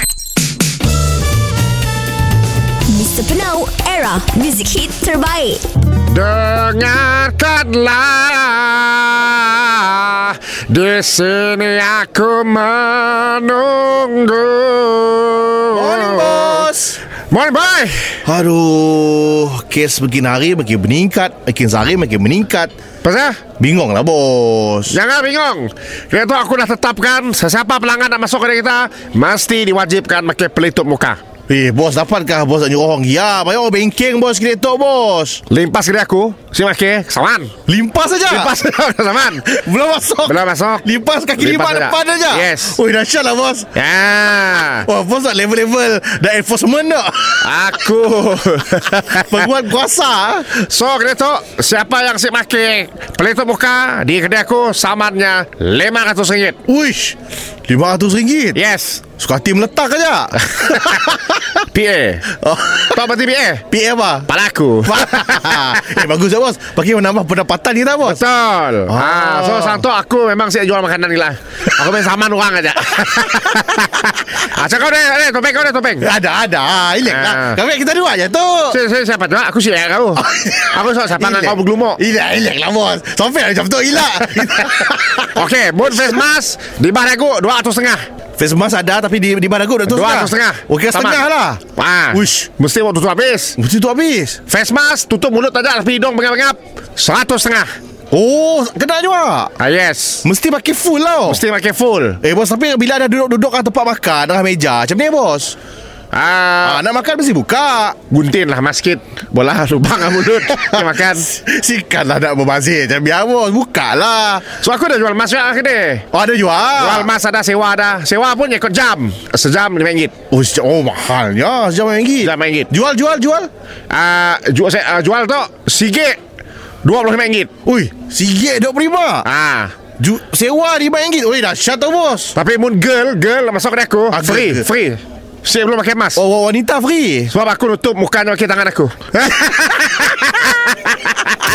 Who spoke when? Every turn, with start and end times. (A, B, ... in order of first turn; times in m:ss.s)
0:02.9-0:05.6 A
0:06.1-0:16.7 B
0:15.7-0:17.0 C
0:17.3-0:18.2 B
0:18.2-0:22.7 C
0:23.0-0:23.4 B
0:23.6-0:25.0 C
0:24.9-0:31.2 B
0:31.5-0:35.4 C
0:35.5-0:37.5 B
0:37.7-0:38.5 C
0:38.3-0:39.5 B
0:39.4-0:43.7 C
0:40.2-0:40.8 B
0:41.4-0:42.8 B
0:43.7-0:44.9 B
0:44.7-0:47.5 C
0:47.4-0:49.5 B
0:48.9-0:50.6 C
0:50.6-0:56.6 B
0:56.7-0:58.6 C
0:58.5-0:59.0 B
0:59.2-1:01.4 C
1:00.5-1:02.3 B
1:02.4-1:03.0 C
1:02.9-1:03.6 B
1:03.7-1:04.3 C
1:04.3-1:06.0 B
1:04.8-1:08.2 C
1:08.0-1:16.1 B
1:08.9-1:09.8 C
1:16.0-1:18.8 C
1:17.1-1:17.6 B
1:18.7-1:22.0 B
1:20.2-1:26.2 C
1:24.3-1:28.0 B
1:28.4-1:32.5 C
1:29.9-1:31.2 B
1:31.8-1:33.6 B
1:33.6-1:34.4 C
1:34.5-1:37.7 B
1:38.1-1:39.5 C
1:39.6-1:40.2 B
1:40.2-1:41.4 C
1:41.3-1:42.2 B
1:42.2-1:45.6 C
1:46.1-1:46.8 B
1:46.6-1:48.0 C
1:48.1-1:51.3 B
1:50.0-1:54.5 C
1:54.5-1:56.0 B
1:56.1-1:57.1 C
1:56.8-2:00.1 B
2:00.3-2:03.5 C
2:02.2-2:02.7 B
2:03.9-2:06.2 B
2:06.8-2:07.5 B
2:07.6-2:09.3 C
2:09.2-2:09.7 B
2:10.0-2:12.4 C
2:12.3-2:16.2 B
2:14.1-2:14.7 C
2:16.1-2:17.3 C
2:17.3-2:21.3 B